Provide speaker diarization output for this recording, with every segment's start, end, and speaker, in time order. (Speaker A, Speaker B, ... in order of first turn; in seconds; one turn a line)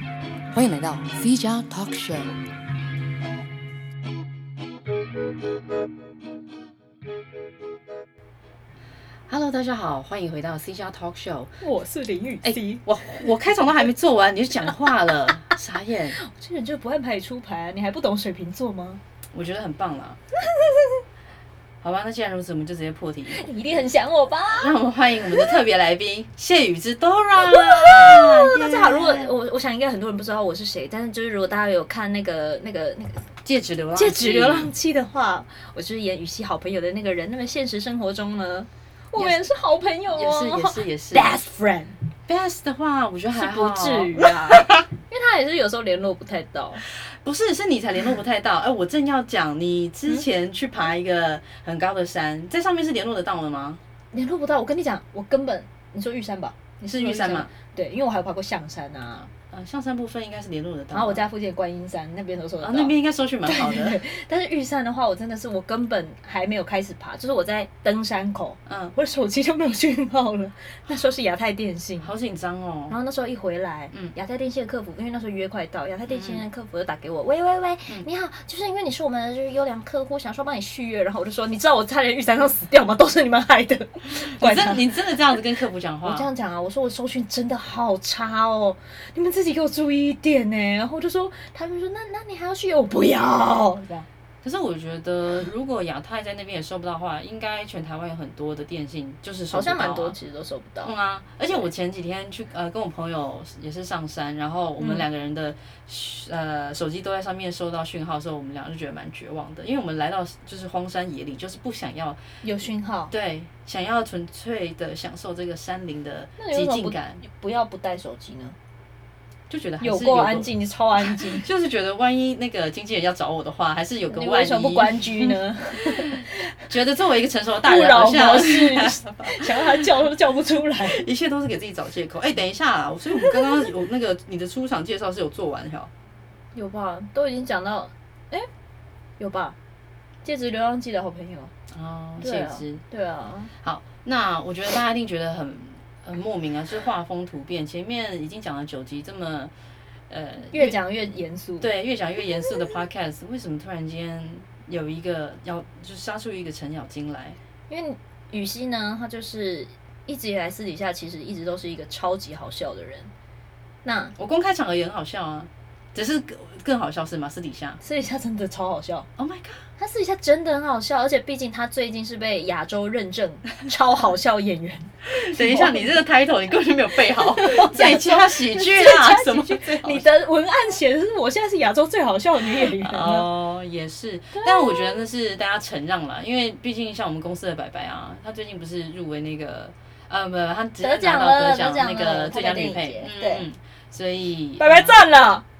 Speaker A: 0.5-2.4
Speaker A: 9.3-11.5
Speaker B: 11.6-13.3
Speaker A: 12.4-16.2
Speaker B: 16.2-19.0
Speaker A: 19.3-20.2
Speaker B: 20.4-21.0
Speaker A: 21.8-23.5
Speaker B: 23.3-24.8
Speaker A: 24.6-29.3
Speaker B: 27.4-33.3
Speaker A: 33.4-34.7
Speaker B: 34.0-42.0
Speaker A: 39.1-39.4
Speaker A: 40.1-41.3
Speaker A: 42.3-44.8
Speaker B: 43.3-46.8
Speaker A: 46.9-53.8
Speaker B: 54.1-59.3
Speaker A: 56.9-57.5
Speaker A: 59.3-61.2
Speaker B: 60.9-62.9
Speaker A: 62.6-64.0
Speaker B: 63.5-72.1
Speaker A: 68.7-68.9
Speaker A: 72.0-73.0
Speaker B: 72.9-85.2
Speaker A: 76.1-76.4
Speaker A: 84.1-86.3
Speaker B: 86.0-94.1
Speaker A: 94.4-100.2
Speaker B: 99.5-100.9
Speaker A: 100.8-112.2
Speaker B: 112.4-113.1
Speaker A: 113.1-117.2
Speaker B: 116.4-118.5
Speaker A: 119.5-120.5
Speaker B: 119.8-121.5
Speaker A: 121.0-129.8
Speaker B: 124.1-126.6
Speaker B: 127.6-131.0
Speaker A: 130.8-135.9
Speaker B: 136.5-138.5
Speaker B: 139.2-139.6
Speaker B: 140.2-141.5
Speaker A: 141.7-142.8
Speaker B: 142.2-143.5
Speaker A: 143.6-149.5
Speaker A: 150.1-150.8
Speaker B: 150.5-151.7
Speaker A: 151.6-157.4
Speaker B: 157.7-163.1
Speaker B: 163.8-164.1
Speaker A: 164.2-167.8
Speaker B: 167.8-169.1
Speaker A: 169.2-169.6
Speaker B: 169.8-175.9
Speaker A: 175.1-180.0
Speaker B: 177.2-183.3
Speaker A: 182.4-195.0
Speaker B: 184.3-185.0
Speaker B: 190.8-193.4
Speaker B: 194.6-195.4